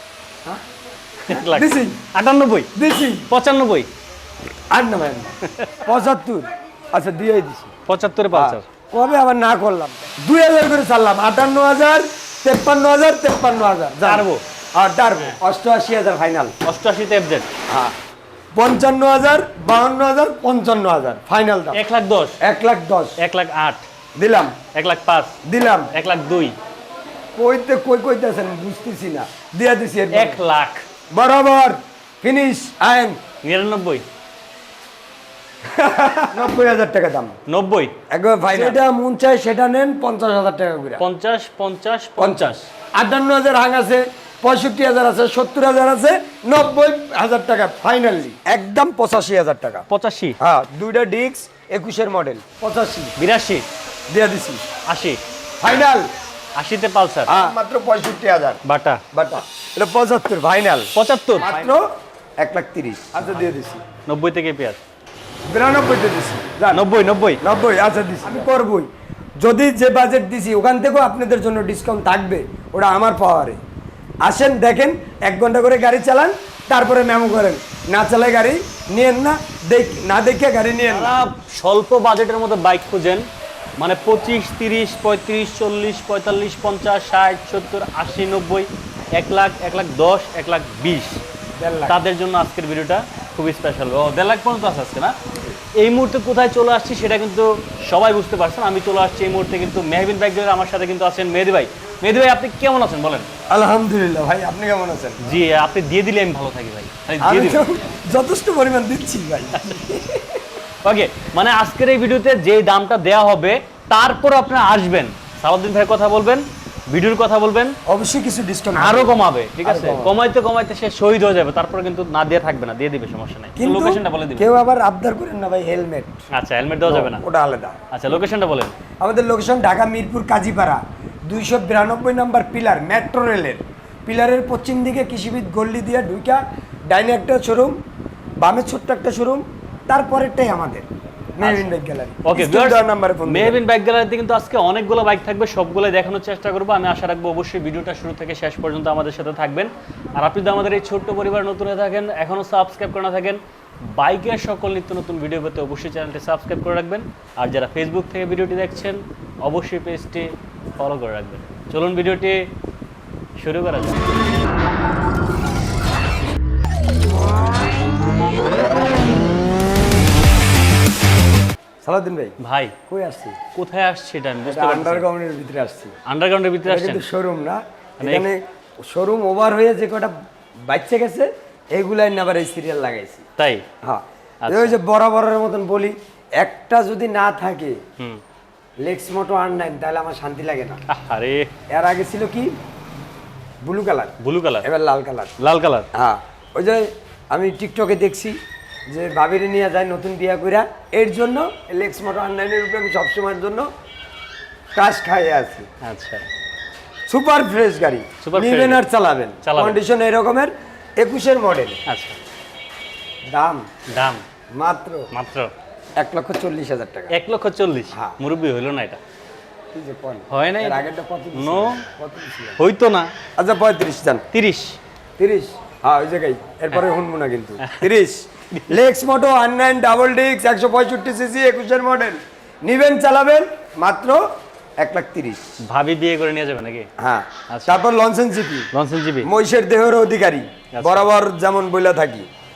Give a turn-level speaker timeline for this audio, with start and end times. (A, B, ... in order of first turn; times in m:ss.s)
0:01.2-0:02.0 A
0:01.3-0:02.7 B
0:02.8-0:03.3 A
0:03.3-0:03.9 B
0:04.7-0:07.8 A
0:05.4-0:05.9 B
0:07.9-0:08.7 B
0:08.3-0:16.6 A
0:14.0-0:14.4 B
0:16.6-0:17.5 B
0:17.7-0:17.9 A
0:18.6-0:21.8 A
0:21.7-0:22.4 B
0:22.4-0:23.2 A
0:23.2-0:23.9 B
0:24.2-0:24.6 A
0:24.7-0:25.4 B
0:25.4-0:25.9 A
0:25.9-0:26.6 B
0:27.4-0:30.4 A
0:30.1-0:30.9 B
0:31.1-0:33.2 A
0:33.4-0:34.0 B
0:35.7-0:37.4 A
0:37.5-0:38.0 B
0:38.1-0:41.0 A
0:38.5-0:38.8 B
0:41.0-0:42.7 B
0:42.2-0:49.9 A
0:49.9-0:50.4 B
0:50.4-0:53.2 A
0:53.2-0:53.7 B
0:54.1-0:54.6 A
0:54.9-0:55.2 B
0:55.6-0:56.1 A
0:56.6-0:57.3 B
0:57.3-0:58.6 A
0:58.6-0:59.0 B
0:59.1-1:03.8 A
1:01.0-1:01.6 B
1:04.1-1:04.8 B
1:05.5-1:06.9 A
1:06.7-1:07.4 B
1:07.4-1:13.6 A
1:14.2-1:21.2 A
1:20.9-1:23.3 B
1:23.8-1:31.2 B
1:31.6-1:32.0 A
1:31.9-1:35.2 B
1:35.8-1:43.3 B
1:43.5-1:45.3 A
1:45.2-1:47.6 B
1:47.2-1:50.4 A
1:50.8-1:57.8 B
1:57.9-2:00.2 A
1:58.8-2:04.5 B
2:03.6-2:06.2 A
2:06.3-2:07.2 B
2:06.9-2:07.8 A
2:07.9-2:08.8 B
2:09.0-2:17.8 A
2:18.4-2:20.9 A
2:21.4-2:23.6 A
2:21.4-2:21.7 B
2:22.2-2:42.5 B
2:43.4-2:44.1 B
2:51.8-2:52.4 A
2:52.4-2:52.8 B
2:52.9-2:53.4 A
2:53.5-2:55.1 B
2:54.5-2:56.0 A
2:56.0-2:57.0 B
2:56.7-3:00.1 A
2:58.0-2:58.3 B
3:00.7-3:03.2 A
3:03.4-3:03.7 B
3:03.8-3:07.8 A
3:04.4-3:04.8 B
3:08.8-3:10.8 A
3:10.9-3:11.5 B
3:11.7-3:12.5 A
3:13.6-3:15.3 A
3:14.2-3:14.7 B
3:15.4-3:15.9 B
3:15.9-3:23.7 A
3:24.8-3:25.7 A
3:25.8-3:26.3 B
3:27.1-3:31.8 A
3:28.2-3:28.8 B
3:29.4-3:29.8 B
3:31.9-3:32.2 B
3:33.3-3:33.7 A
3:33.9-3:34.2 B
3:34.5-3:35.1 A
3:35.1-3:35.5 B
3:36.0-3:37.1 A
3:37.1-3:39.0 B
3:39.7-3:42.6 A
3:40.3-3:41.8 B
3:42.6-3:43.1 B
3:43.4-3:44.2 A
3:44.3-3:44.8 B
3:45.2-3:54.3 A
3:47.6-3:47.9 B
3:54.8-3:55.6 A
3:55.6-3:56.9 B
3:57.0-3:58.7 A
3:57.5-3:57.8 B
3:58.7-3:59.3 B
3:59.2-4:02.3 A
4:00.7-4:01.1 B